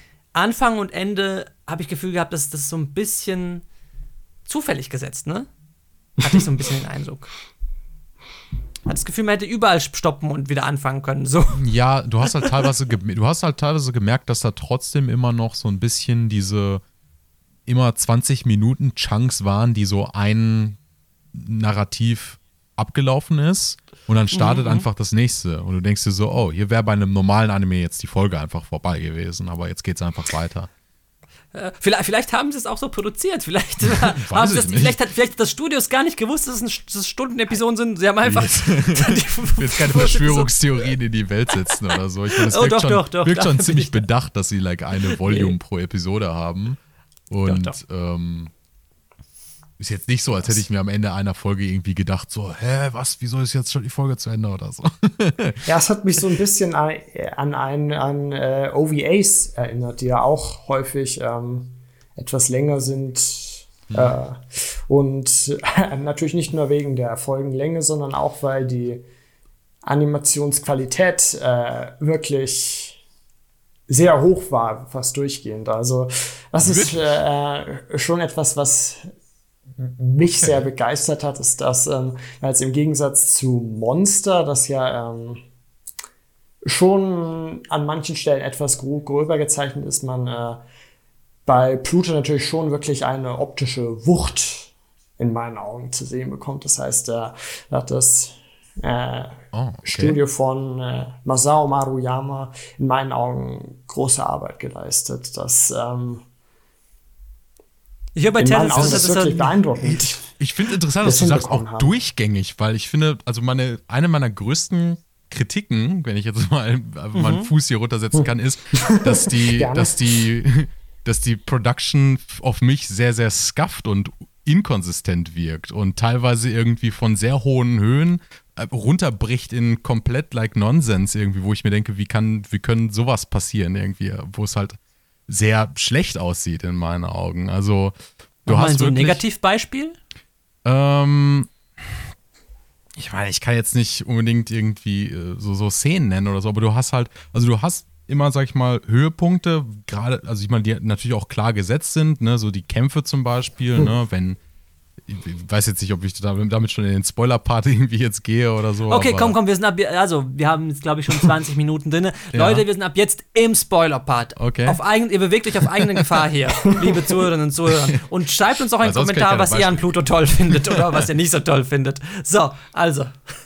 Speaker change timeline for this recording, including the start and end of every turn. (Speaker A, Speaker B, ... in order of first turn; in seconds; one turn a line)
Speaker A: 0.3-3.6
Speaker A: 4.5-5.5
Speaker A: 6.2-7.3
Speaker A: 8.9-11.7
Speaker B: 11.5-16.8
Speaker B: 17.7-20.8
Speaker B: 21.3-30.7
Speaker A: 24.3-24.9
Speaker A: 31.5-40.9
Speaker B: 33.8-35.0
Speaker B: 38.2-46.8
Speaker A: 42.4-44.0
Speaker A: 45.1-45.5
Speaker B: 47.3-48.5
Speaker A: 47.4-47.8
Speaker B: 49.8-55.6
Speaker C: 55.6-69.0
Speaker C: 69.8-73.0
Speaker C: 73.9-79.1
Speaker B: 76.6-77.1
Speaker C: 79.8-85.4
Speaker B: 80.2-80.7
Speaker C: 86.7-90.6
Speaker C: 91.5-106.2
Speaker B: 99.5-100.2
Speaker A: 108.2-109.5
Speaker C: 108.4-110.2
Speaker B: 108.7-109.2
Speaker B: 109.8-134.8
Speaker C: 111.0-111.9
Speaker A: 117.1-117.5
Speaker C: 118.8-120.0
Speaker B: 135.3-137.9
Speaker B: 138.5-139.2
Speaker A: 138.5-140.0
Speaker B: 140.6-141.5
Speaker B: 143.0-154.4
Speaker B: 155.1-159.3
Speaker A: 158.9-173.2
Speaker B: 162.3-162.6
Speaker B: 164.4-164.8
Speaker B: 168.8-170.0